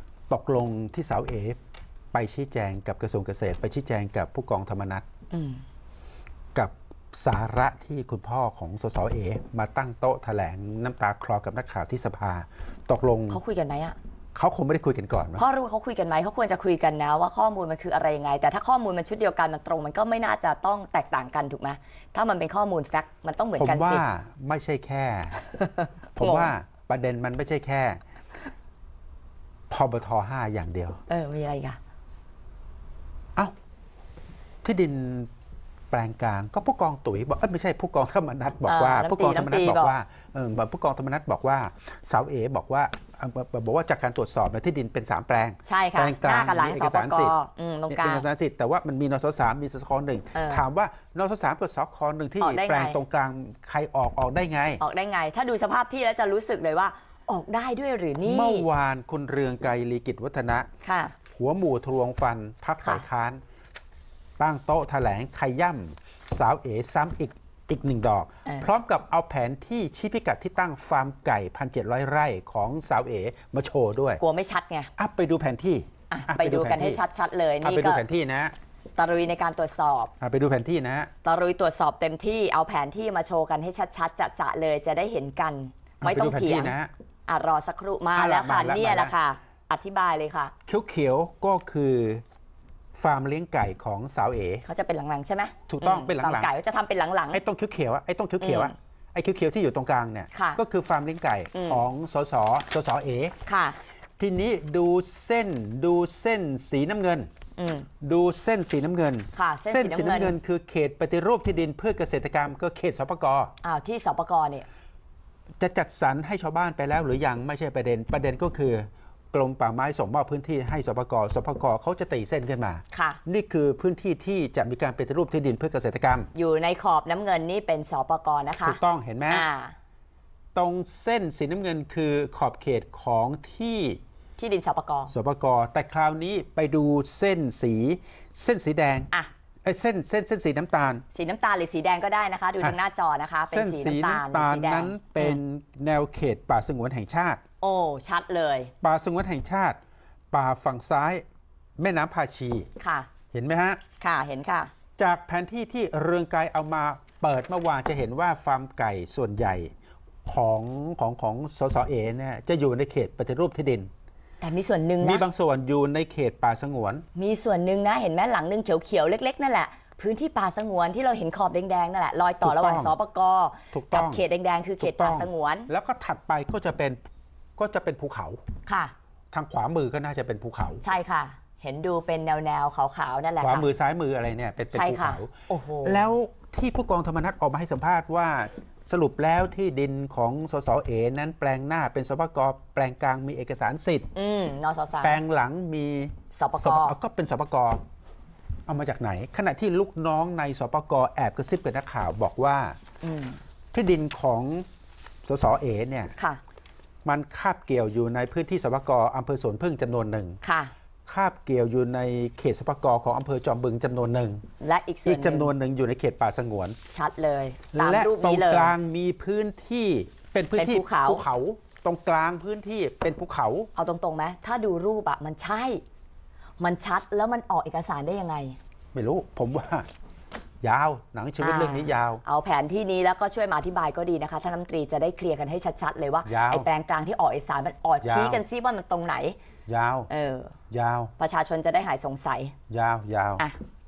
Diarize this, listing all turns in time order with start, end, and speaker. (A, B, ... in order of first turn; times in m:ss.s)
0:00.3-0:01.6 A
0:02.1-0:05.0 A
0:05.3-0:05.6 B
0:06.5-0:13.4 A
0:13.3-0:14.0 B
0:14.3-0:15.4 A
0:15.4-0:24.0 B
0:23.5-0:25.4 A
0:25.4-0:26.5 B
0:26.2-0:28.0 A
0:29.7-0:31.0 A
0:31.1-0:31.8 B
0:34.6-0:35.3 A
0:35.9-0:47.3 A
0:38.6-0:40.0 B
0:45.6-0:48.2 B
0:47.9-0:54.8 A
0:50.3-0:50.6 B
0:52.4-0:53.0 B
0:54.8-0:58.6 B
0:58.2-1:00.7 A
1:00.8-1:01.1 B
1:01.3-1:03.4 A
1:04.4-1:14.2 A
1:14.2-1:14.9 B
1:15.0-1:17.0 A
1:16.1-1:18.0 B
1:17.6-1:18.5 A
1:19.0-1:20.1 B
1:20.2-1:21.1 A
1:21.2-1:26.7 B
1:26.0-1:26.9 A
1:27.3-1:30.5 B
1:28.1-1:29.1 A
1:30.7-1:32.2 A
1:32.9-1:34.6 A
1:34.6-1:37.4 B
1:35.7-1:36.5 A
1:37.3-1:43.3 A
1:38.4-1:38.7 B
1:40.3-1:40.6 B
1:41.5-1:41.8 B
1:43.4-1:43.8 B
1:44.2-1:47.3 A
1:47.6-1:47.9 B
1:48.0-1:53.5 A
1:49.3-1:50.3 B
1:53.6-1:54.6 B
1:55.6-2:06.3 A
2:02.9-2:03.2 B
2:06.3-2:08.8 B
2:08.6-2:09.4 A
2:09.3-2:09.7 B
2:10.5-2:14.0 A
2:14.4-2:15.1 B
2:15.1-2:19.1 A
2:19.6-2:21.0 A
2:21.1-2:25.4 B
2:23.5-2:27.4 A
2:27.6-2:28.7 B
2:28.8-2:29.8 A
2:30.3-2:31.2 A
2:31.8-2:32.7 A
2:32.8-2:33.1 B
2:33.3-2:33.8 A
2:34.0-2:34.7 B
2:35.0-2:39.7 A
2:40.2-2:43.9 A
2:44.4-2:45.2 B
2:45.0-2:47.0 A
2:47.2-2:55.7 B
2:52.4-2:52.9 A
2:53.7-2:54.2 A
2:54.8-2:57.0 A
2:57.6-2:58.4 A
2:58.6-2:58.9 B
2:59.3-3:00.8 A
3:00.8-3:03.7 B
3:03.4-3:14.1 A
3:04.7-3:06.0 B
3:14.1-3:15.2 B
3:15.0-3:17.8 A
3:16.3-3:17.0 B
3:18.7-3:22.8 A
3:23.0-3:23.4 B
3:23.7-3:24.6 A
3:25.2-3:26.1 A
3:27.0-3:30.4 A
3:30.4-3:30.7 B
3:31.0-3:34.4 A
3:34.6-3:35.5 B
3:35.0-3:36.8 A
3:36.9-3:38.7 B
3:37.7-3:43.7 A
3:40.5-3:41.2 B
3:43.8-3:45.8 B
3:46.6-3:48.6 B
3:48.9-3:49.9 A
3:50.6-3:52.2 A
3:51.4-3:59.4 B
3:56.2-3:56.7 A
3:58.0-3:58.4 A
3:59.7-4:00.1 A
4:00.1-4:00.5 B
4:00.7-4:01.1 A
4:01.2-4:02.5 B
4:02.7-4:03.4 A